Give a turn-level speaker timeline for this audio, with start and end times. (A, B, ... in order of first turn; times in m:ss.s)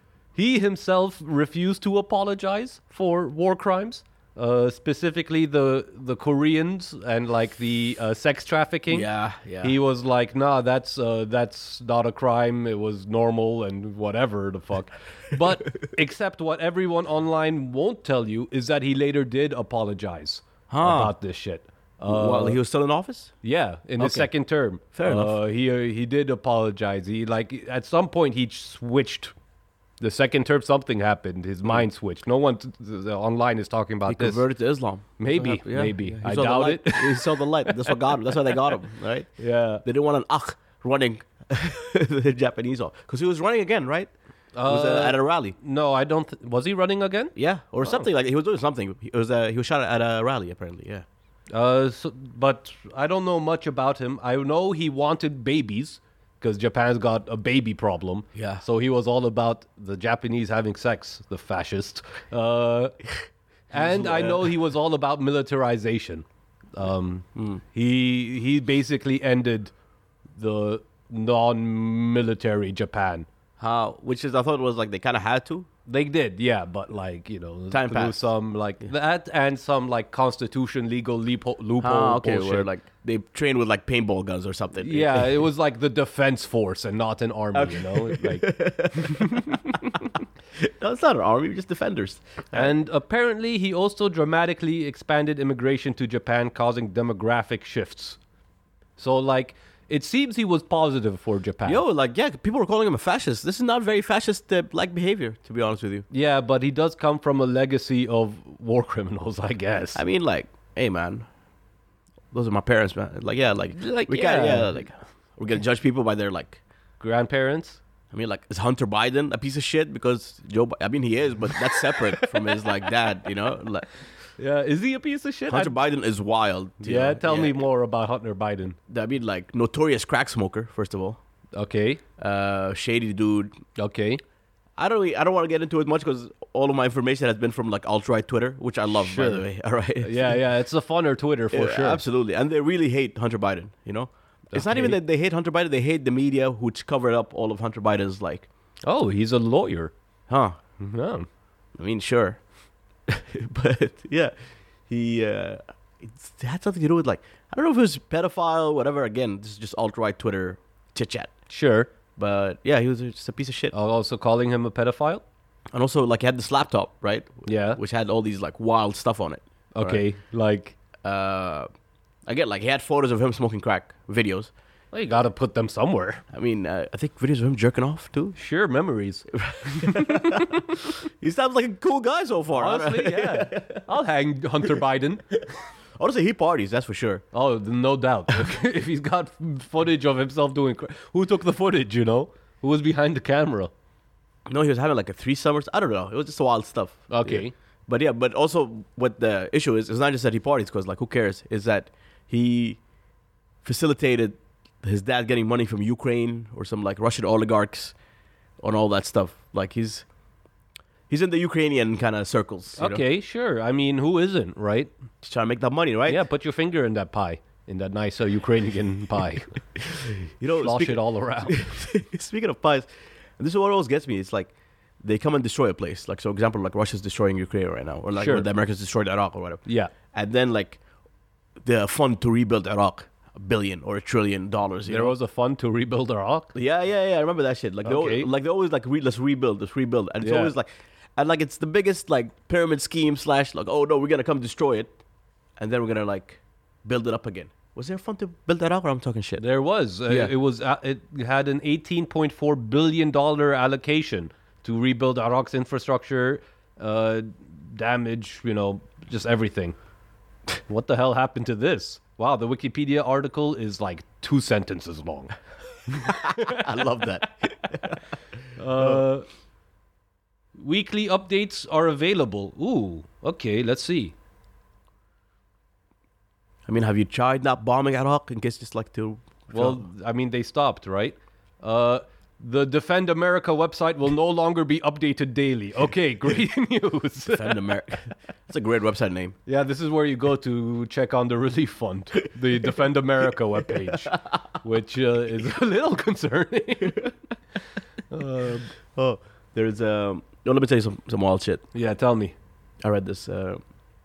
0:00.4-0:09.1 A
0:08.9-0:09.8 B
0:09.6-0:22.6 A
0:20.7-0:21.1 B
0:22.0-0:23.3 B
0:23.4-0:29.3 A
0:24.0-0:24.3 B
0:24.9-0:25.4 B
0:30.0-0:34.4 A
0:34.1-0:45.6 B
0:35.2-0:38.0 A
0:39.4-0:39.8 A
0:44.5-0:48.1 A
0:47.4-0:51.0 B
0:51.5-1:03.0 A
0:58.3-0:58.6 B
1:03.7-1:09.7 A
1:03.7-1:04.5 B
1:07.3-1:07.6 B
1:10.3-1:13.3 A
1:13.6-1:15.7 B
1:15.8-1:22.7 A
1:17.7-1:18.3 B
1:21.8-1:25.4 B
1:24.8-1:29.5 A
1:27.5-1:32.7 B
1:32.5-1:38.2 A
1:39.0-1:41.8 A
1:41.6-1:46.0 B
1:46.1-1:50.0 A
1:49.9-1:51.3 B
1:52.3-1:56.6 B
1:53.7-1:54.8 A
1:57.0-1:57.8 A
1:58.1-2:03.9 B
2:02.2-2:02.5 A
2:04.4-2:05.8 A
2:05.5-2:07.6 B
2:06.8-2:08.8 A
2:08.9-2:11.2 B
2:11.5-2:12.0 A
2:12.2-2:13.6 B
2:13.8-2:14.2 A
2:14.8-2:20.4 B
2:18.9-2:19.4 A
2:20.0-2:22.0 A
2:21.5-2:28.5 B
2:24.5-2:25.0 A
2:28.8-2:29.9 A
2:30.3-2:30.6 B
2:30.8-2:31.3 A
2:31.8-2:32.4 B
2:33.1-2:34.3 B
2:34.9-2:41.3 B
2:41.5-2:41.9 A
2:42.1-2:43.7 B
2:43.7-2:45.2 A
2:45.7-2:50.0 B
2:47.5-2:47.8 A
2:49.7-2:50.8 A
2:51.0-2:51.7 B
2:52.2-2:54.5 B
2:54.9-2:56.2 A
2:56.3-2:58.4 B
2:58.4-3:00.4 A
2:59.3-3:03.8 B
3:02.5-3:05.4 A
3:06.0-3:07.2 B
3:07.3-3:13.7 A
3:14.5-3:22.8 B
3:17.1-3:17.5 A
3:23.6-3:27.9 B
3:28.6-3:30.0 B
3:31.1-3:33.0 B
3:32.8-3:34.9 A
3:35.2-3:36.2 B
3:36.1-3:39.5 A
3:39.9-3:50.8 B
3:40.5-3:41.8 A
3:48.2-3:48.5 A
3:49.6-3:49.9 A
3:51.6-3:55.1 B
3:54.9-3:56.5 A
3:56.5-4:05.0 B
3:57.8-3:58.3 A
4:00.2-4:00.5 A
4:05.6-4:09.4 B
4:09.4-4:19.8 A
4:20.7-4:25.3 A
4:25.9-4:26.8 A
4:26.0-4:28.0 B
4:28.6-4:29.2 A
4:30.5-4:34.1 A
4:36.7-4:39.8 B
4:39.5-4:47.8 A
4:47.3-4:49.4 B
4:49.4-4:57.1 A
4:58.1-4:58.7 A
4:58.9-5:01.6 B
5:01.7-5:02.3 A
5:02.8-5:03.6 B